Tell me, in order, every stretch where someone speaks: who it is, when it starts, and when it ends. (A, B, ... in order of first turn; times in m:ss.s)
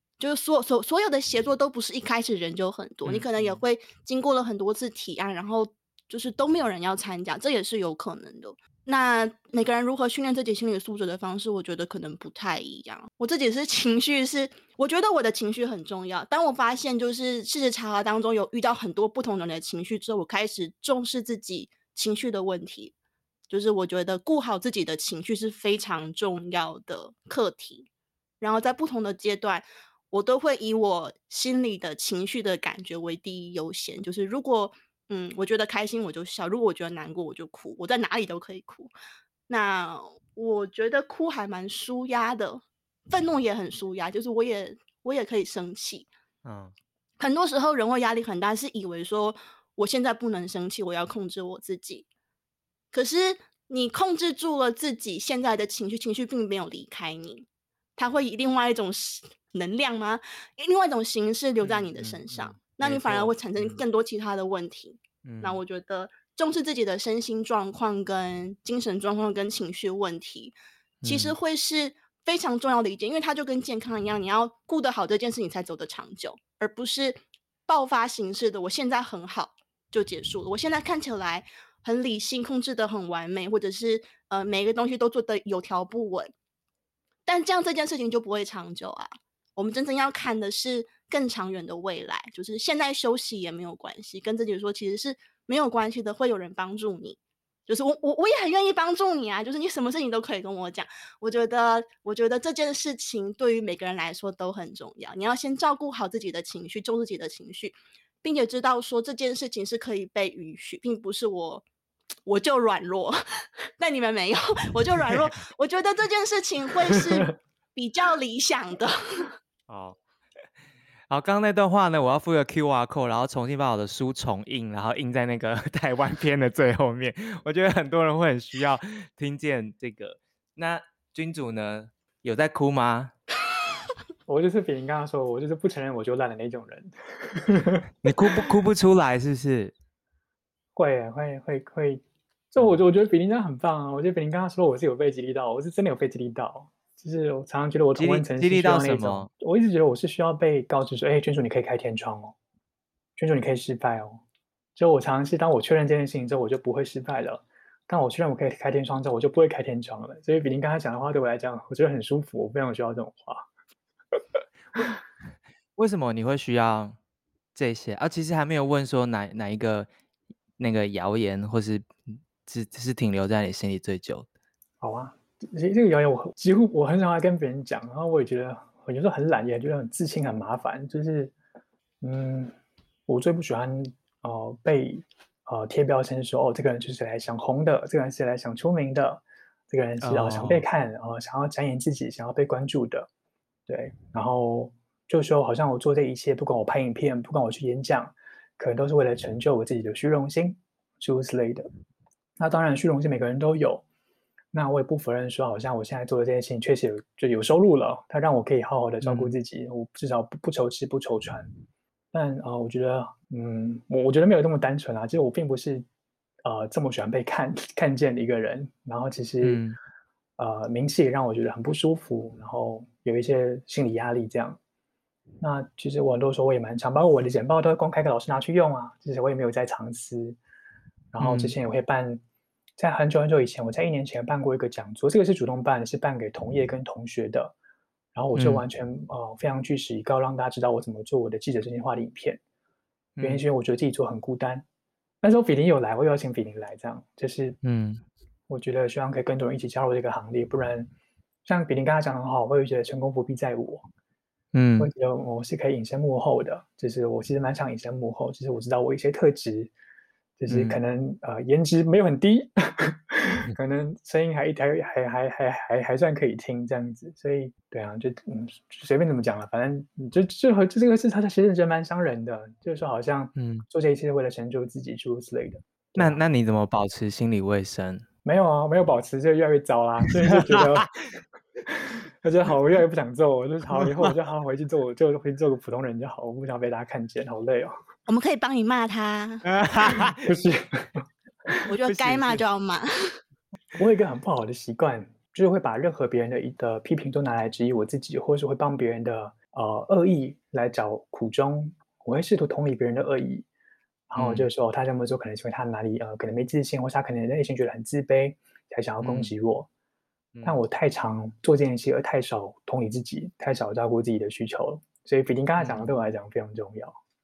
0:00.2-0:22.9 A
0:03.0-0:03.6 B
0:23.5-0:27.9 A
0:28.4-0:38.9 A
0:39.5-0:46.1 A
0:46.4-0:46.7 B
0:47.2-0:52.0 A
0:52.9-1:26.3 A
1:01.6-1:03.8 B
1:05.2-1:05.6 B
1:11.0-1:11.4 B
1:27.2-1:51.6 A
1:52.2-1:53.2 A
1:53.8-1:59.3 A
1:57.0-1:57.3 C
1:59.7-2:00.0 B
2:01.1-2:13.1 B
2:14.3-2:17.8 C
2:18.0-2:19.7 B
2:20.8-2:32.3 C
2:27.9-2:29.3 B
2:33.2-2:34.2 C
2:34.8-2:43.4 C
2:45.8-2:47.0 B
2:47.5-2:49.9 B
2:50.6-2:54.3 B
2:54.8-3:01.3 C
3:02.0-3:02.5 C
3:03.1-3:13.1 C
3:10.0-3:10.6 B
3:13.7-3:21.7 C
3:22.4-3:23.8 C
3:24.5-3:31.5 C
3:29.0-3:29.4 B
3:32.1-3:35.8 C
3:36.4-3:39.6 C
3:39.4-3:39.8 B
3:40.4-3:44.6 C
3:45.4-3:50.4 C
3:51.1-3:52.2 C
3:51.2-3:51.5 B
3:52.8-3:57.5 C
3:58.1-4:02.4 C
3:58.3-3:58.6 B
4:03.2-4:03.4 B
4:03.2-4:04.6 C
4:05.2-4:07.6 C
4:07.6-4:08.0 B
4:08.5-4:10.9 C
4:11.4-4:13.8 C
4:14.5-4:14.9 B
4:14.8-4:19.7 C
4:20.4-4:36.2 C
4:20.5-4:20.8 B
4:33.3-4:33.6 B
4:36.0-4:38.0 B
4:38.2-4:40.9 C
4:40.3-4:40.9 B
4:41.7-4:47.7 C
4:43.7-4:44.1 B
4:48.1-4:49.4 A
4:49.4-4:50.3 B
4:49.9-4:51.0 C
4:51.7-4:52.8 A
4:51.9-4:52.4 B
4:53.8-5:03.4 C
5:04.1-5:09.7 C
5:04.2-5:04.5 B
5:09.0-5:09.3 B
5:10.4-5:16.9 C
5:15.6-5:16.0 B